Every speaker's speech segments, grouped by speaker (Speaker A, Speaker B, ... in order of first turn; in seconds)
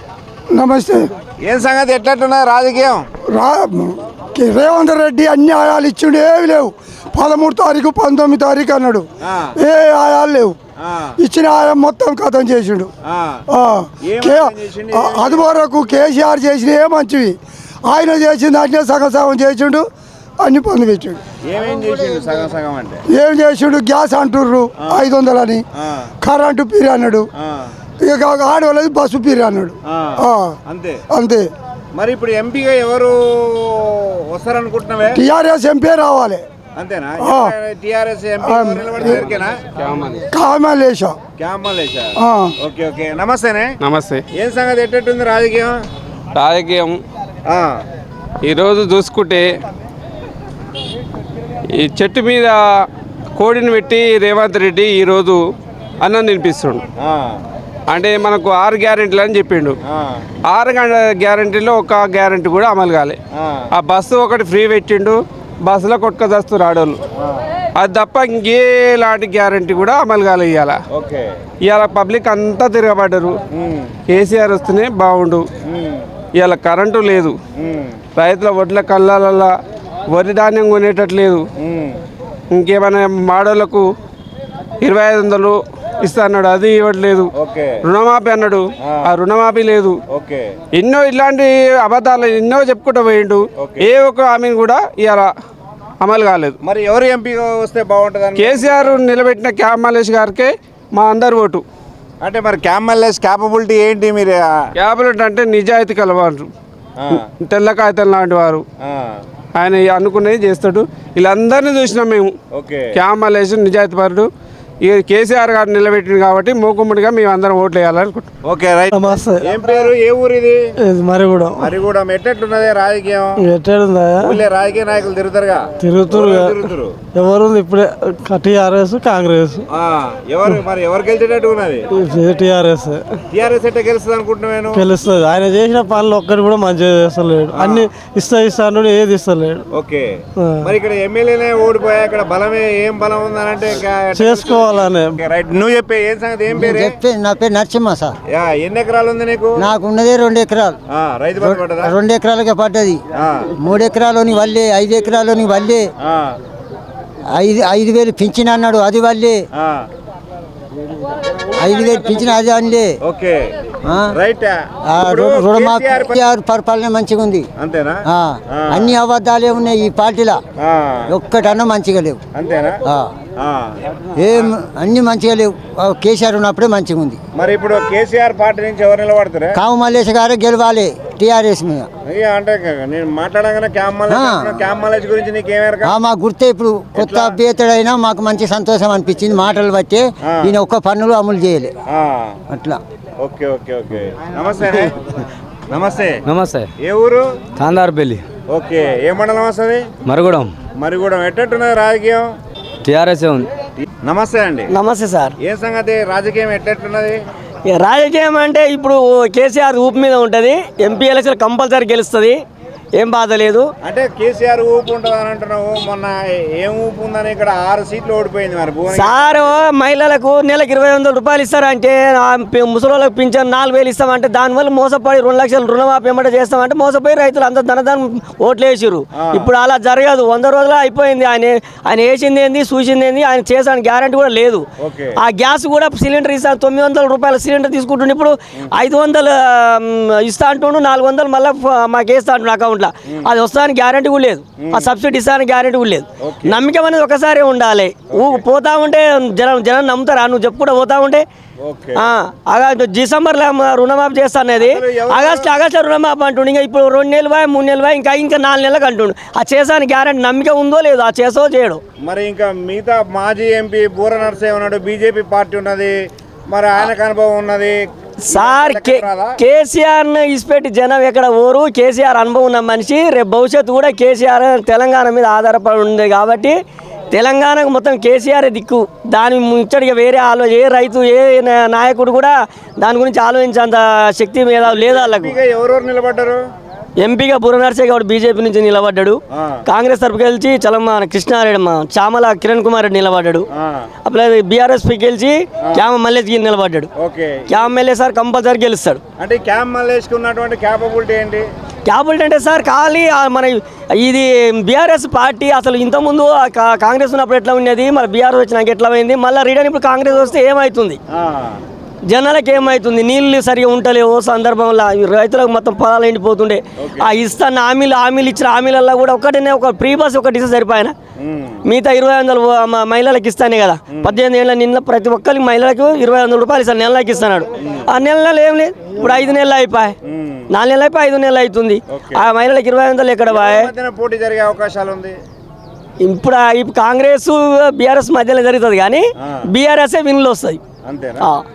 Speaker A: 0.5-1.1, 3.2-10.6, 11.2-12.9, 13.5-19.9, 20.4-21.2, 23.1-25.6, 26.2-27.3, 28.0-30.6, 31.1-31.5, 35.1-36.4, 37.2-37.5, 38.4-39.2, 40.3-41.2, 42.1-42.5
Speaker B: 1.4-3.1, 9.2-9.6, 10.8-11.2, 13.0-13.4, 14.0-15.5, 21.4-23.0, 24.8-25.1, 25.8-26.1, 27.4-27.7, 29.9-31.0, 31.9-35.2, 36.7-39.6, 41.4-43.8, 44.3-45.8, 47.5-47.8, 57.0-57.4, 59.9-60.2, 63.3-63.7, 70.9-71.3, 73.5-73.9, 75.6-76.1, 77.5-78.0, 81.6-82.0, 87.3-87.8, 88.8-89.1, 90.1-90.5, 93.6-93.9, 96.6-99.0, 102.2-104.6, 107.0-107.2, 108.8-109.2, 112.5-112.9, 118.4-120.6, 121.5-123.4, 124.2-127.0, 129.7-131.8, 133.3-134.8, 137.5-137.9, 139.7-146.9, 148.3-149.6, 150.9-151.9, 153.2-153.5, 156.0-156.4, 159.5-159.8, 163.0-163.5, 164.1-166.2, 167.6-168.9, 170.6-171.1, 172.3-172.8, 173.4-173.8, 177.3-179.6, 182.1-185.9, 186.9-187.3, 190.2-190.5, 191.9-192.4, 193.2-194.9, 195.7-196.2, 196.8-197.3, 198.5-199.9, 200.7-202.3, 204.0-204.7, 205.4-207.2, 213.8-219.5, 229.2-229.5, 234.8-235.2, 244.6-244.9, 246.2-246.6, 248.1-248.4, 251.6-252.0, 254.6-255.5, 262.0-265.9, 266.5-267.8, 268.3-269.3, 284.6-286.4, 289.3-289.6, 293.6-293.9, 296.9-297.6, 299.2-301.5, 311.1-311.6, 316.8-317.1, 321.2-321.6, 330.0-330.5, 331.9-332.2, 333.3-335.1, 340.8-341.3
Speaker C: 39.8-40.2, 43.8-44.2, 46.3-47.0, 48.4-49.5, 51.7-52.6, 53.4-55.4, 56.0-56.8, 57.9-59.8, 60.5-63.2, 63.7-67.0, 67.8-70.8, 71.6-73.4, 74.1-75.4, 76.4-77.3, 78.1-79.5, 80.1-81.4, 82.5-83.8, 84.8-87.3, 87.8-90.0, 90.8-95.3, 96.0-96.5, 98.3-101.6, 104.8-106.5, 107.1-108.7, 109.6-112.3, 112.9-114.3, 114.8-118.3
Speaker D: 118.9-119.5, 120.8-121.7, 123.4-124.4, 125.8-129.7, 131.9-133.0, 134.7-139.6, 140.4-140.7, 144.1-145.2
Speaker E: 146.5-148.1, 149.6-150.8, 151.4-153.0, 153.6-155.9, 157.3-159.4, 161.6-162.9, 163.8-164.1, 164.9-167.5, 168.1-170.4, 171.1-172.2, 174.2-177.2, 179.5-181.9, 184.1-184.6, 185.8-191.8, 192.5-192.8
Speaker F: 196.3-196.7, 197.6-198.2, 200.0-200.5, 202.8-203.5
Speaker G: 204.7-205.3, 207.7-212.4, 212.9-213.7, 218.9-234.7, 235.2-251.2, 251.9-261.8, 268.3-276.6, 277.1-285.3, 287.0-293.4, 294.0-296.9, 297.5-299.0, 301.9-311.0, 312.1-320.9, 321.6-329.9, 330.5-333.7, 336.0-340.6